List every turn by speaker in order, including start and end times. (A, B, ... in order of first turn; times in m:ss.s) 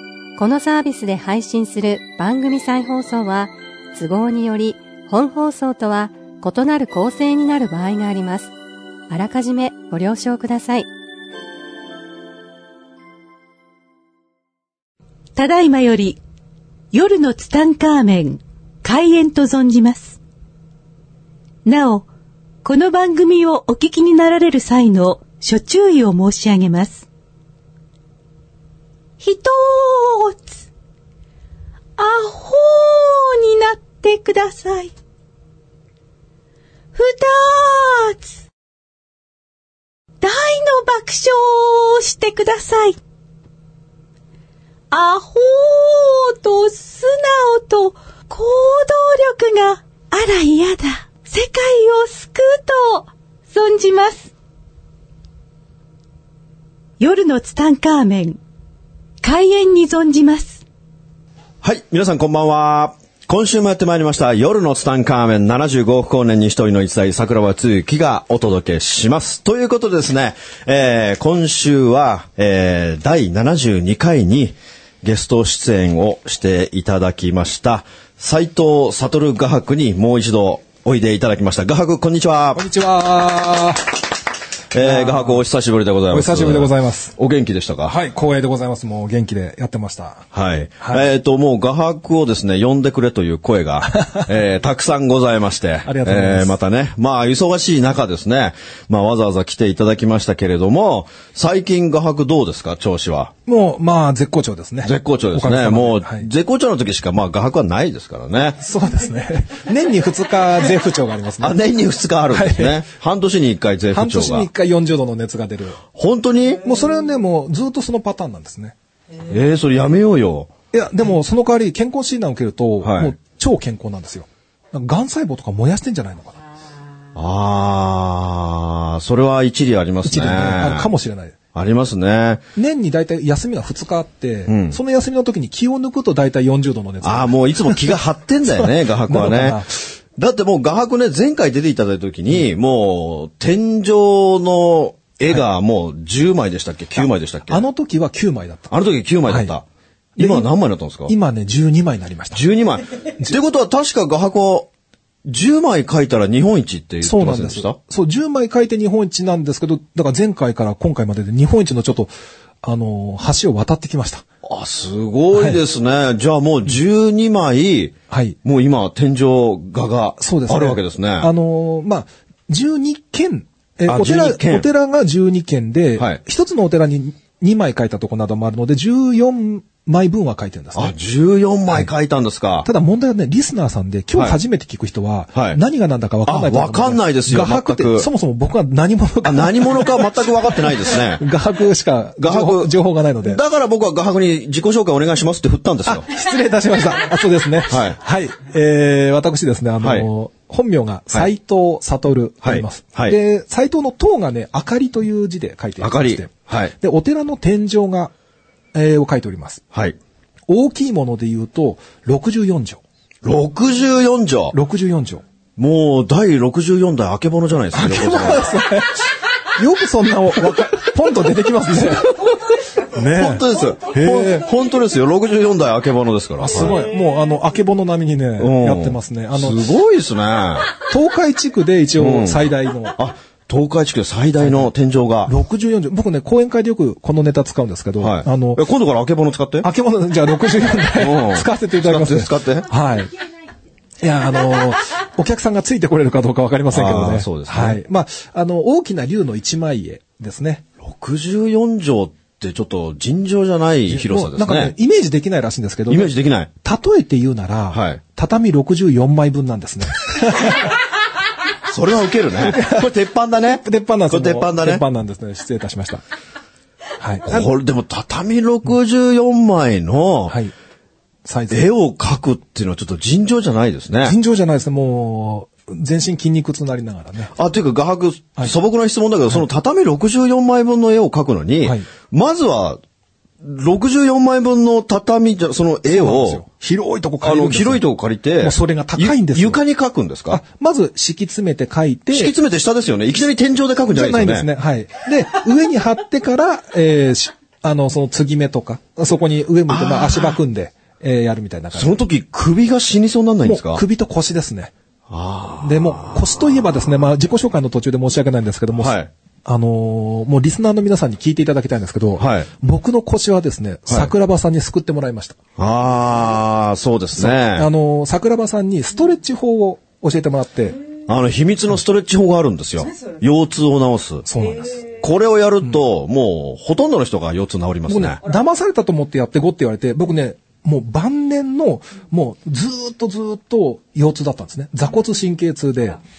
0:00.4-0:08.5 A
0:09.1-0:10.9 A
0:15.4-0:16.2 B
0:16.9-0:20.2 B
0:21.6-0:22.1 B
0:22.6-0:27.0 B
0:29.2-0:30.6 B
0:32.0-0:34.9 B
0:36.9-0:38.3 B
0:40.2-0:43.0 B
0:44.9-0:54.3 B
0:57.0-0:58.4 B
0:59.2-1:00.6 B
1:01.6-1:22.7 C
1:22.6-1:24.0 D
1:24.7-1:28.0 C
1:24.8-1:25.4 D
1:26.1-1:27.1 D
1:27.9-1:30.3 D
1:30.3-1:43.3 C
1:30.8-1:31.1 D
1:35.8-1:36.6 D
1:43.5-1:46.3 D
1:44.8-1:48.6 C
1:48.6-1:51.6 D
1:51.4-1:54.5 C
1:52.3-1:52.8 D
1:53.9-1:55.8 D
1:56.0-1:56.6 C
1:56.6-1:58.8 D
1:59.2-2:00.5 C
2:00.7-2:06.4 D
2:02.8-2:03.2 C
2:07.2-2:10.9 C
2:10.0-2:11.4 D
2:11.5-2:12.4 C
2:12.6-2:18.0 D
2:14.5-2:14.8 C
2:17.0-2:19.6 C
2:18.5-2:19.8 D
2:20.2-2:27.6 C
2:27.5-2:28.7 D
2:28.7-2:29.6 C
2:29.2-2:29.5 D
2:30.2-2:30.5 D
2:30.2-2:31.1 C
2:31.1-2:32.4 D
2:32.3-2:34.7 C
2:35.3-2:37.8 C
2:37.0-2:42.1 D
2:42.6-2:44.2 D
2:44.4-2:51.3 C
2:48.1-2:48.4 D
2:50.2-3:01.0 D
2:53.9-2:54.7 C
3:00.8-3:02.7 C
3:02.6-3:13.4 D
3:05.3-3:05.6 C
3:06.2-3:08.1 C
3:09.2-3:11.2 C
3:12.2-3:16.1 C
3:15.8-3:28.1 D
3:17.7-3:18.0 C
3:19.8-3:20.1 C
3:22.4-3:23.2 C
3:25.8-3:26.7 C
3:28.7-3:29.6 D
3:30.5-3:32.8 D
3:33.2-3:34.6 C
3:34.5-3:35.2 D
3:35.6-3:38.5 C
3:37.7-3:39.0 D
3:39.6-3:42.3 D
3:42.9-3:44.5 D
3:43.1-3:46.8 C
3:46.4-3:49.7 D
3:48.4-3:50.7 C
3:50.9-3:53.0 D
3:52.0-3:55.3 C
3:54.4-3:54.7 D
3:55.3-3:58.6 D
3:58.0-3:59.7 C
3:59.6-4:03.1 D
4:00.9-4:02.7 C
4:04.0-4:10.6 D
4:06.7-4:07.8 C
4:10.8-4:14.7 C
4:13.9-4:20.7 D
4:15.9-4:16.5 C
4:17.7-4:18.0 C
4:21.7-4:24.8 C
4:22.4-4:22.9 D
4:23.6-4:26.0 D
4:27.0-4:27.5 D
4:27.3-4:30.4 C
4:30.3-4:30.5 D
4:31.2-4:31.7 D
4:31.5-4:34.2 C
4:34.0-4:37.3 D
4:37.4-4:42.8 C
4:43.4-4:46.4 C
4:45.9-4:47.8 D
4:47.2-4:50.4 C
4:48.4-4:49.6 D
4:50.3-4:52.3 D
4:52.1-4:54.5 C
4:53.9-5:02.0 D
4:59.7-5:00.4 C
5:01.7-5:03.8 C
5:03.4-5:04.7 D
5:05.1-5:06.6 C
5:05.6-5:15.4 D
5:08.8-5:09.1 C
5:12.2-5:12.5 C
5:15.6-5:17.7 C
5:17.2-5:20.8 D
5:21.1-5:24.3 C
5:24.3-5:24.9 D
5:25.0-5:28.2 C
5:27.9-5:36.0 D